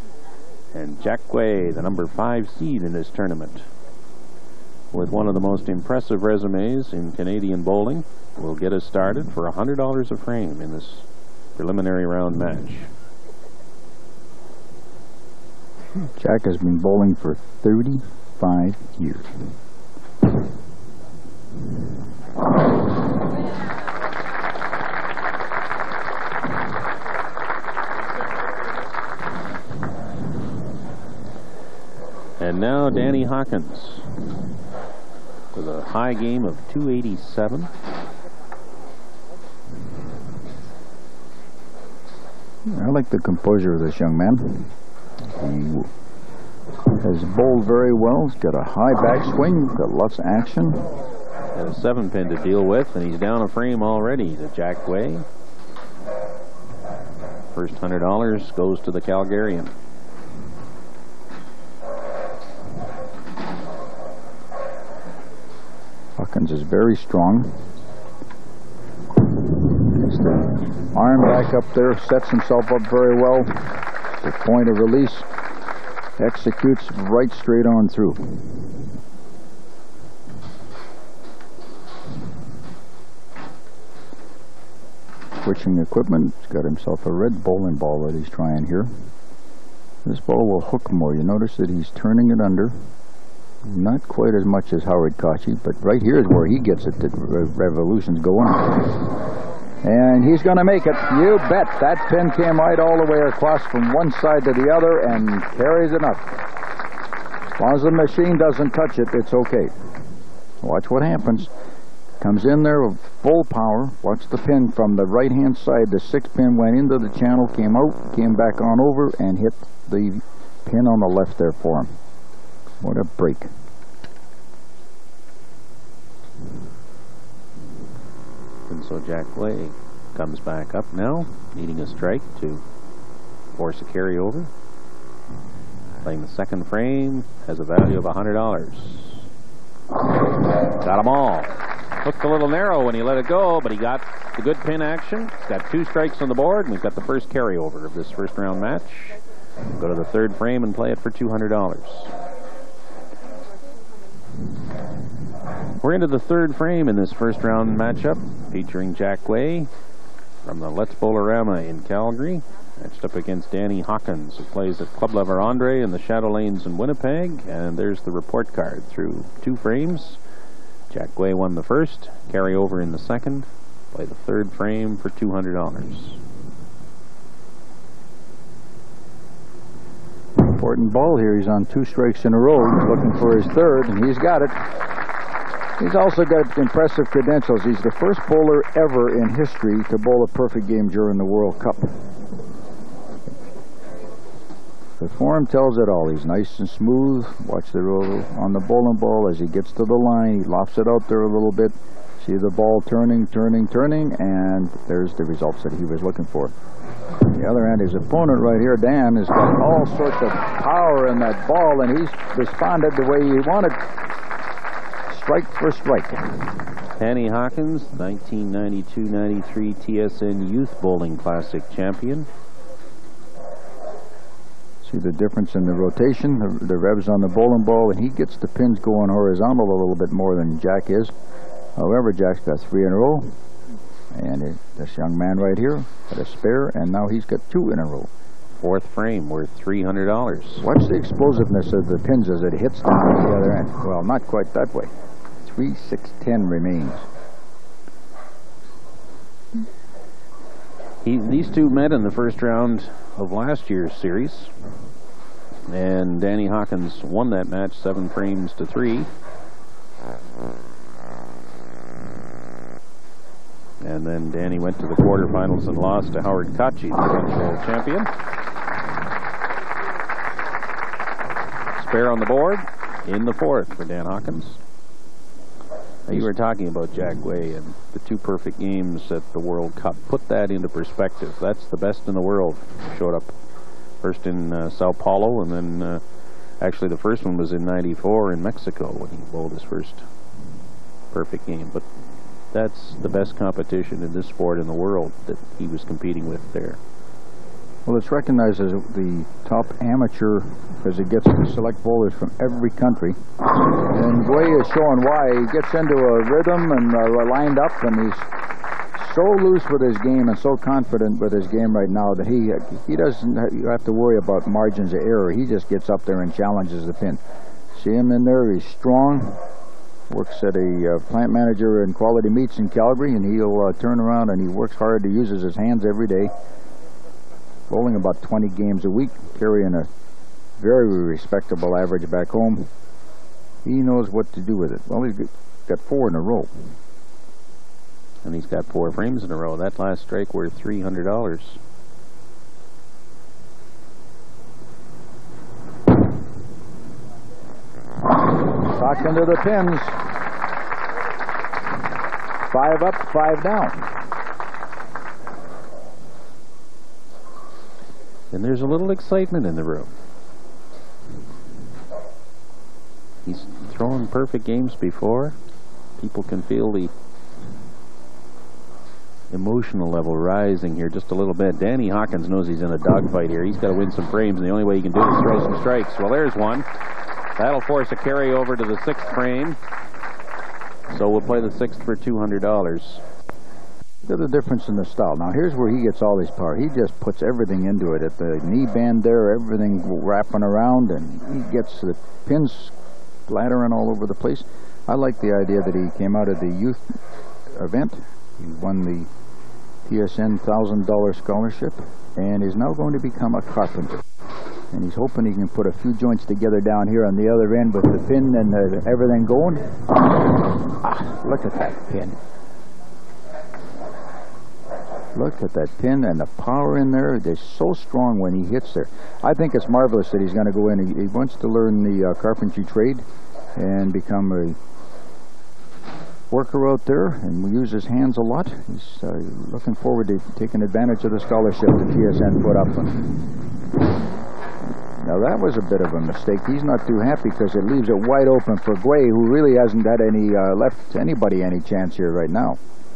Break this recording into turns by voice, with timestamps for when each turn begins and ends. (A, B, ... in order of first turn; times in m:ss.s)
0:00.7-0:03.7 A
0:04.9-0:12.9 A
0:16.2-0:19.3 B
0:32.4-0:34.1 A
0:35.5-0:37.7 A
0:42.7-0:44.7 B
0:45.3-0:45.9 B
0:47.0-0:50.9 B
0:51.5-0:55.2 A
0:57.5-0:59.7 A
1:06.2-1:07.6 B
1:09.8-1:15.3 B
1:16.2-1:18.8 B
1:25.4-1:28.9 B
1:30.0-1:32.7 B
1:33.6-1:39.1 B
1:39.8-1:46.3 B
1:47.6-1:49.7 B
1:50.6-1:51.5 B
1:52.2-2:01.9 B
2:02.8-2:03.5 B
2:08.7-2:12.6 A
2:13.5-2:14.5 A
2:16.0-2:19.2 A
2:20.8-2:29.2 A
2:29.7-2:32.1 A
2:35.8-2:39.7 A
2:40.4-2:50.2 A
2:50.9-2:56.2 A
3:00.4-3:04.7 B
3:05.8-3:11.9 B
3:15.0-3:26.5 B
3:27.2-3:34.0 B
3:35.1-3:36.4 B
3:37.0-3:42.3 A
3:44.8-3:51.1 B
3:51.8-3:53.3 B
3:54.1-3:58.1 B
3:58.6-4:00.7 A
4:00.6-4:07.0 B
4:11.0-4:14.5 A
4:15.7-4:19.1 A
4:23.8-4:28.1 A
4:31.8-4:34.6 A
4:36.1-4:43.3 A
4:44.0-4:46.0 A
4:46.6-4:50.0 A
4:51.1-4:51.8 A
4:52.5-4:56.8 A
4:57.8-5:03.2 B
5:03.9-5:08.3 B
5:08.9-5:17.2 B
5:17.7-5:19.4 B
5:20.1-5:26.3 B
5:27.7-5:29.9 B
5:30.6-5:32.7 B
5:33.6-5:36.5 B
5:38.2-5:41.6 A
5:48.6-5:50.0 B
5:52.5-5:53.9 B
5:58.3-5:59.9 A
6:03.2-6:05.4 A
6:06.0-6:06.9 A
6:09.3-6:16.7 A
6:17.4-6:19.6 A
6:20.9-6:23.0 A
6:24.0-6:32.7 B
6:33.3-6:37.0 B
6:37.5-6:39.1 B
6:39.8-6:44.0 B
6:44.7-6:49.8 B
6:50.6-6:52.2 B
6:55.1-7:03.0 B
7:03.6-7:04.6 B
7:06.3-7:13.1 B
7:15.0-7:22.6 B